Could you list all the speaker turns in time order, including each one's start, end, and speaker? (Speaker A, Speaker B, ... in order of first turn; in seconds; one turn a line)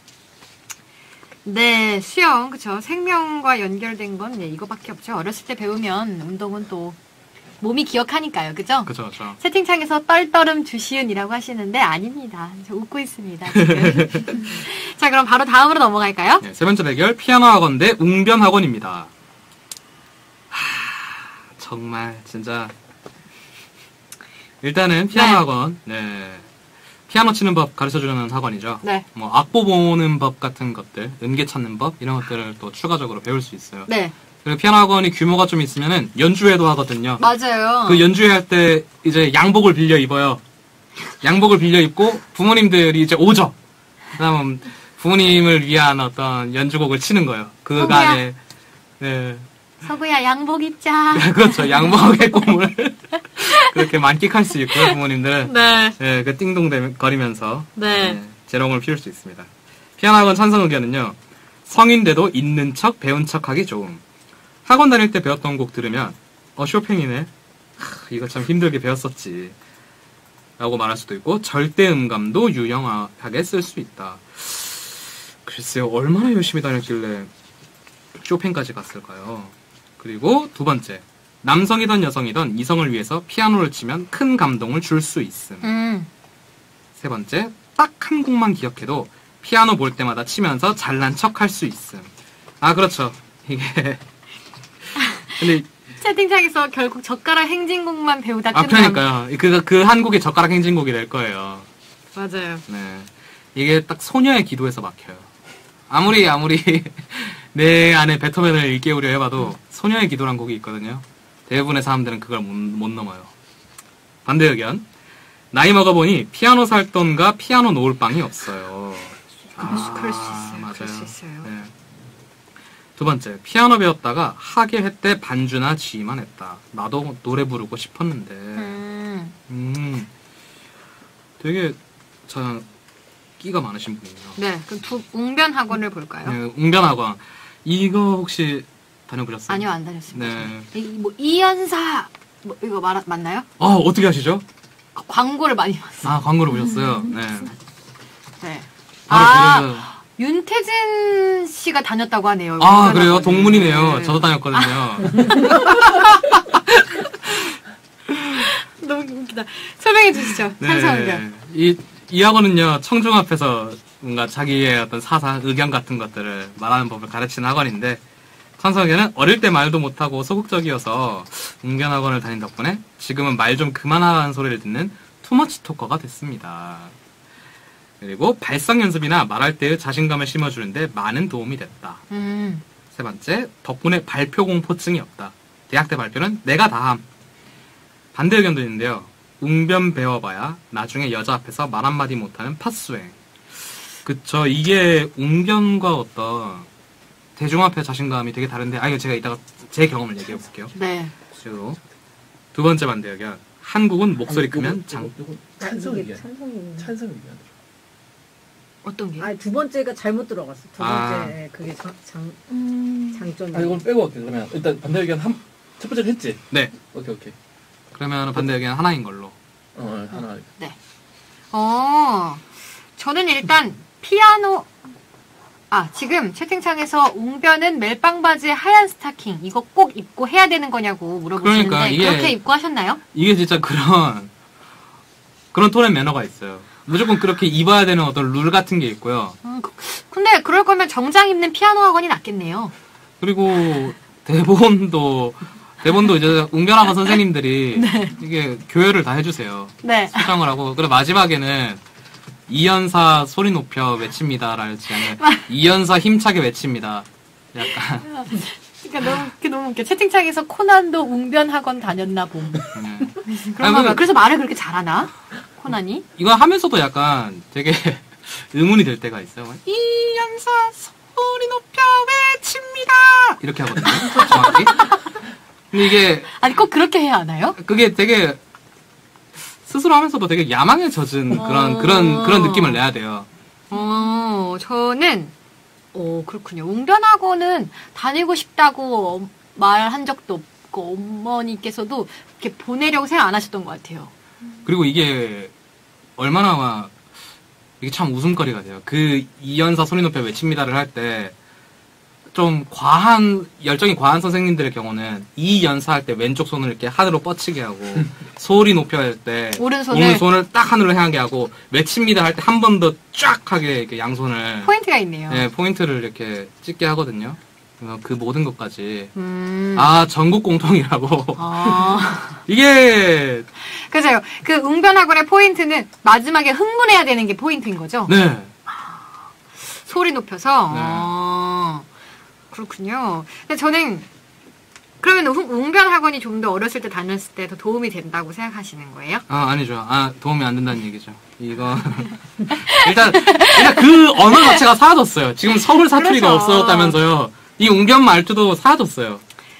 Speaker A: 1.4-7.0
Speaker A: 7.6-16.4
Speaker B: 8.8-9.4
Speaker B: 13.5-14.4
Speaker B: 16.4-19.1
Speaker B: 20.5-22.7
Speaker B: 24.6-26.5
Speaker A: 25.1-25.4
Speaker B: 27.1-33.9
Speaker A: 33.9-34.1
Speaker B: 34.4-37.2
Speaker A: 37.2-38.0
Speaker B: 37.8-40.4
Speaker B: 41.2-43.5
Speaker B: 44.1-48.4
Speaker A: 47.8-48.2
Speaker B: 49.0-49.5
Speaker A: 49.8-51.9
Speaker B: 51.1-64.0
Speaker A: 53.4-53.7
Speaker A: 54.8-55.9
Speaker A: 57.8-58.2
Speaker B: 64.6-69.5
Speaker B: 70.6-77.3
Speaker B: 78.1-85.7
Speaker A: 85.6-86.1
Speaker B: 87.0-94.0
Speaker B: 95.3-95.7
Speaker A: 96.0-99.0
Speaker B: 98.5-101.7
Speaker A: 102.1-102.6
Speaker B: 102.7-105.3
Speaker B: 105.9-113.3
Speaker B: 114.2-114.8
Speaker B: 115.5-121.7
Speaker A: 119.6-121.5
Speaker B: 123.0-128.8
Speaker A: 128.6-129.3
Speaker B: 129.5-130.1
Speaker B: 131.4-131.8
Speaker B: 132.3-132.7
Speaker B: 133.4-134.4
Speaker A: 134.4-136.4
Speaker B: 136.2-140.7
Speaker A: 139.5-143.5
Speaker B: 143.6-144.4
Speaker A: 144.9-146.1
Speaker B: 146.0-147.5
Speaker A: 148.4-156.1
Speaker B: 149.1-149.9
Speaker B: 152.6-156.0
Speaker B: 156.7-157.5
Speaker A: 158.4-161.2
Speaker B: 160.6-168.0
Speaker B: 168.6-176.9
Speaker B: 178.0-182.0
Speaker A: 182.1-182.6
Speaker B: 182.9-187.0
Speaker B: 188.1-193.2
Speaker B: 194.0-196.7
Speaker B: 197.3-200.7
Speaker A: 200.7-201.1
Speaker B: 201.3-201.8
Speaker B: 202.5-205.1
Speaker C: 204.2-207.5
Speaker D: 205.6-206.9
Speaker A: 208.8-209.3
Speaker D: 209.2-213.9
Speaker B: 210.8-211.3
Speaker C: 213.5-217.3
Speaker B: 217.9-219.3
Speaker C: 219.8-220.5
Speaker A: 220.1-220.8
Speaker A: 221.5-224.7
Speaker A: 225.7-233.0
Speaker B: 231.4-232.4
Speaker B: 233.1-234.3
Speaker B: 235.5-239.4
Speaker A: 239.4-242.7
Speaker B: 243.2-251.8
Speaker A: 247.7-248.1
Speaker A: 249.8-250.3
Speaker B: 252.5-258.1
Speaker A: 258.1-262.7
Speaker B: 262.7-264.0
Speaker A: 263.2-266.0
Speaker B: 266.1-269.6
Speaker A: 269.6-275.0
Speaker B: 273.4-274.9
Speaker B: 275.7-276.4
Speaker A: 276.4-277.6
Speaker B: 277.6-278.4
Speaker B: 279.6-283.3
Speaker A: 281.3-282.8
Speaker A: 283.7-285.3
Speaker A: 285.9-294.1
Speaker B: 294.6-295.5
Speaker B: 296.1-296.9
Speaker B: 297.8-301.3
Speaker B: 302.3-314.7
Speaker A: 309.6-310.2
Speaker A: 314.6-315.4
Speaker B: 315.3-319.1
Speaker A: 319.1-319.9
Speaker B: 319.7-323.5
Speaker A: 321.4-322.4
Speaker A: 323.6-328.1
Speaker B: 328.1-328.5
Speaker A: 328.7-328.9
Speaker A: 329.5-331.9
Speaker B: 330.7-331.1
Speaker A: 332.5-334.1
Speaker A: 335.0-339.2
Speaker B: 339.3-349.2
Speaker A: 343.2-343.8
Speaker A: 345.9-347.0